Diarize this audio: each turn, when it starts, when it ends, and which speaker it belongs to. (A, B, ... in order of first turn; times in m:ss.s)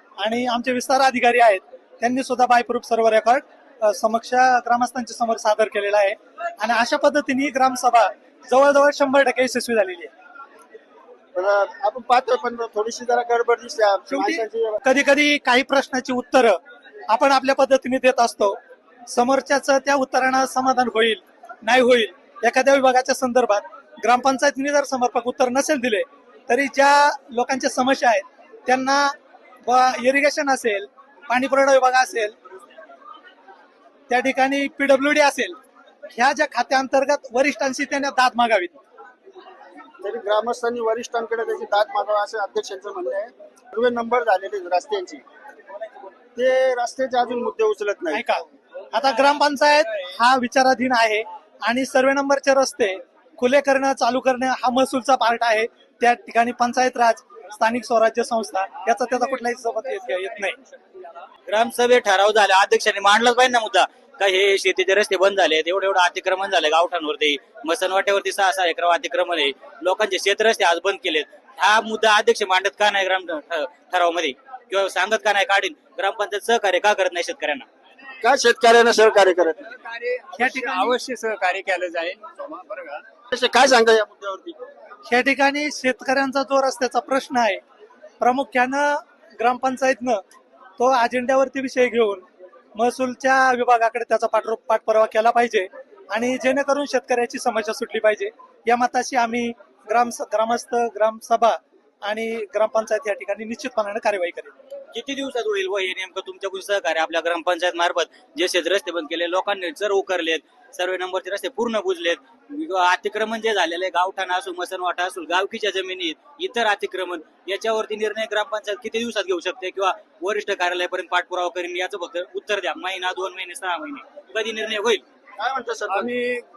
0:00.2-0:10.1 A
0:11.4-0:14.8 B
0:14.1-0:16.6 A
0:17.1-0:18.6 A
0:19.1-0:29.1 A
0:29.7-0:32.3 A
0:34.1-0:35.5 A
0:36.1-0:38.8 A
0:40.0-0:45.2 B
0:46.4-0:48.2 B
0:48.1-0:48.4 A
0:48.9-1:00.6 A
1:01.5-1:17.6 C
1:18.2-1:19.7 B
1:19.7-1:23.0 D
1:20.4-1:20.9 A
1:23.3-1:24.6 B
1:25.1-1:27.6 A
1:28.2-1:30.2 A
1:30.8-1:32.2 A
1:32.8-1:44.5 A
1:44.9-2:05.0 C
2:05.4-2:06.1 B
2:05.9-2:06.4 D